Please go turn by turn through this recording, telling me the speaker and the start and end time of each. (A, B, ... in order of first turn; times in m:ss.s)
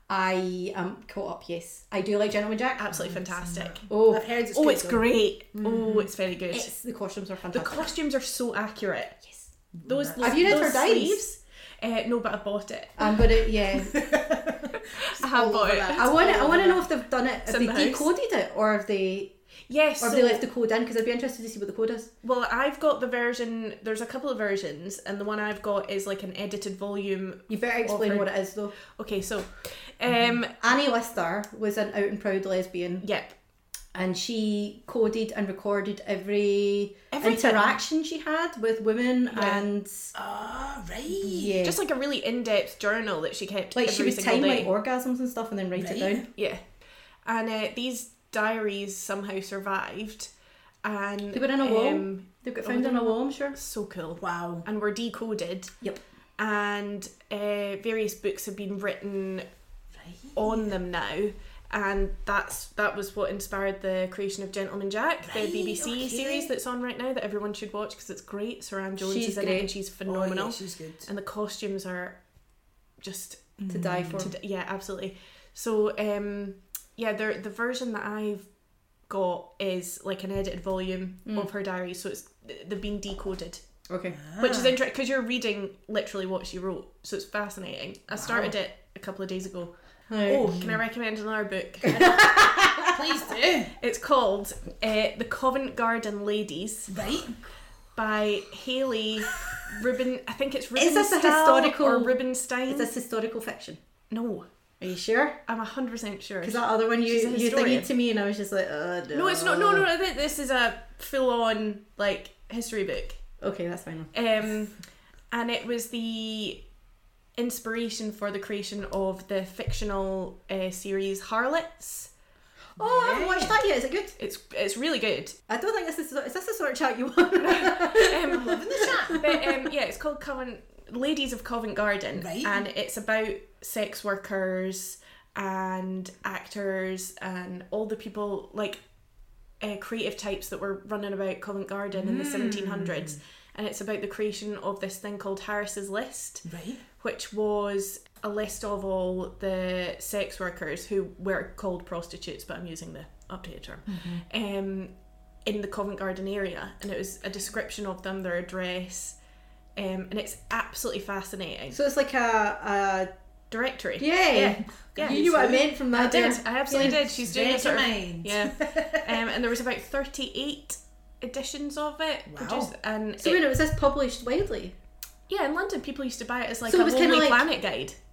0:00.1-0:03.0 A
0:02.8-0:03.9 B
0:02.9-0:06.1 C
0:03.9-0:04.2 A
0:04.5-0:06.7 B
0:06.5-0:07.9 A
0:07.5-0:09.2 B
0:09.7-0:10.7 C
0:09.8-0:13.0 B
0:10.2-0:11.2 A
0:13.0-0:14.1 A
0:13.7-0:16.9 C
0:14.7-0:16.2 B
0:16.0-0:19.3 A
0:17.5-0:18.1 B
0:19.7-0:20.4 B
0:20.0-0:22.1 A
0:22.2-0:28.3 B
0:27.5-0:28.8 A
0:28.8-0:30.6 B
0:30.6-0:33.1 A
0:33.0-0:33.4 B
0:33.9-0:40.1 A
0:37.1-0:37.8 B
0:40.1-0:41.6 C
0:41.1-0:41.8 A
0:41.6-0:44.7 B
0:43.8-0:46.3 A
0:45.8-0:46.2 C
0:46.4-0:46.6 B
0:47.2-0:50.3 B
0:50.8-0:55.7 B
0:51.3-0:53.6 A
0:54.2-0:54.7 C
0:56.4-0:59.5 B
1:00.0-1:00.7 C
1:00.4-1:12.2 B
1:05.2-1:06.5 C
1:09.0-1:09.7 A
1:10.1-1:11.1 C
1:13.0-1:13.6 B
1:13.6-1:14.3 C
1:13.7-1:14.3 A
1:14.2-1:18.5 B
1:19.1-1:23.6 B
1:23.9-1:24.2 A
1:24.2-1:24.8 C
1:24.4-1:29.7 B
1:28.2-1:28.5 C
1:30.1-1:30.6 A
1:30.2-1:32.1 B
1:31.9-1:33.0 A
1:32.0-1:33.8 C
1:33.8-1:36.9 B
1:36.9-1:37.4 C
1:38.0-1:42.9 B
1:40.8-1:42.2 A
1:42.7-1:43.8 A
1:44.1-1:44.5 B
1:44.8-1:45.4 A
1:45.5-1:47.9 B
1:46.4-1:49.9 A
1:49.1-1:53.2 B
1:53.4-1:54.1 A
1:54.1-1:54.8 B
1:55.3-1:56.6 B
1:57.4-2:02.1 B
2:02.8-2:03.6 C
2:02.8-2:04.2 A
2:04.2-2:05.4 B
2:05.5-2:09.5 A
2:07.4-2:18.8 B
2:08.3-2:09.3 C
2:12.2-2:12.6 C
2:19.6-2:26.5 B
2:21.9-2:23.2 C
2:26.4-2:26.8 C
2:27.0-2:34.9 B
2:33.9-2:34.2 C
2:35.4-2:39.2 B
2:39.8-2:41.8 B
2:41.7-2:43.1 A
2:43.5-2:44.1 B
2:44.0-2:47.0 A
2:44.3-2:45.7 C
2:45.9-2:53.4 B
2:46.7-2:49.2 C
2:52.3-2:52.7 C
2:53.2-2:54.8 A
2:55.3-2:58.0 B
2:56.7-2:57.5 A